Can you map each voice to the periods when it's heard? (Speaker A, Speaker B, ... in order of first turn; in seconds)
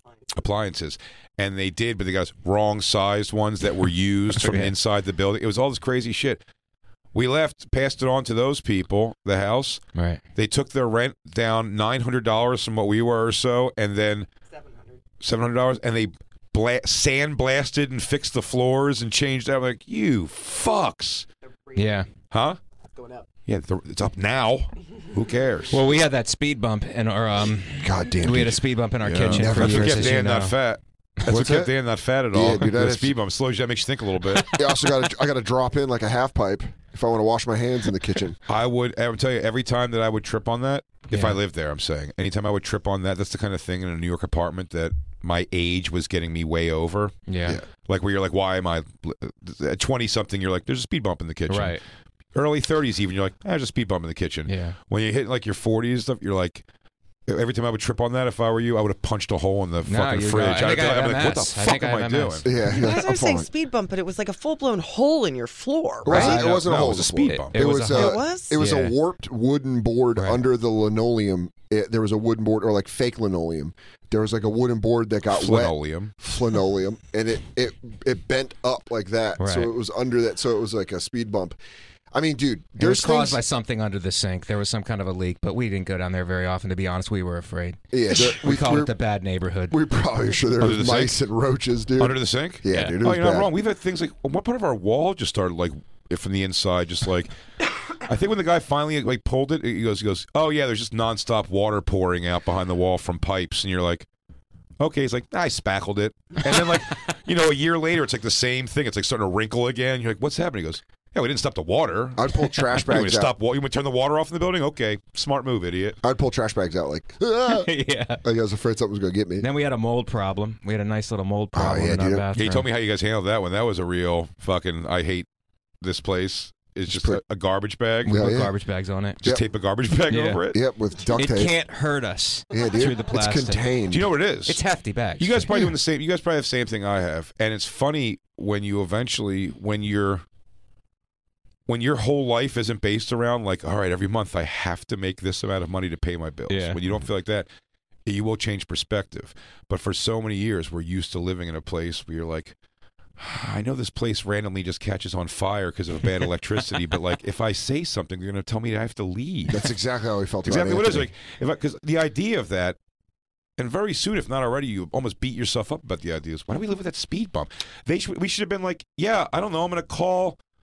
Speaker A: 0.3-6.4, 7.1-9.8, 10.3-14.3, 15.2-21.3, 22.3-22.6, 23.5-25.8, 29.0-34.5, 38.5-47.2, 47.8-51.8, 52.3-56.6, 57.3-62.5, 66.1-67.6, 75.3-76.1, 90.6-91.2, 92.0-97.3, 98.0-104.1, 104.8-116.0, 122.4-125.3, 125.8-128.2, 129.2-130.6, 133.9-134.6, 135.2-140.2, 141.7-147.5, 148.1-152.6, 153.2-159.7, 160.4-162.8, 163.6-170.4
Speaker B: 4.3-4.7, 9.9-10.2, 21.8-22.1, 25.7-30.6, 41.1-41.4, 47.3-47.6, 51.5-51.8, 54.5-54.8, 59.9-62.5, 66.1-69.0, 70.2-70.4, 79.4-79.7, 82.8-89.8, 92.7-93.0, 117.5-118.2, 119.4-122.7, 128.1-129.2, 130.1-130.4, 131.2-133.7, 134.5-135.5, 146.5-146.8
Speaker C: 23.0-23.2, 62.7-66.4, 67.9-68.5
Speaker D: 27.8-28.7, 29.2-30.2, 31.3-31.7, 32.3-33.2, 34.5-38.4, 62.4-63.5, 66.0-81.6, 82.1-83.4, 87.9-88.9, 89.7-93.5, 112.2-113.3, 116.0-117.7, 118.2-119.5, 121.5-122.3, 126.9-127.2, 128.1-128.5, 130.5-131.5, 132.5-134.1, 159.5-161.1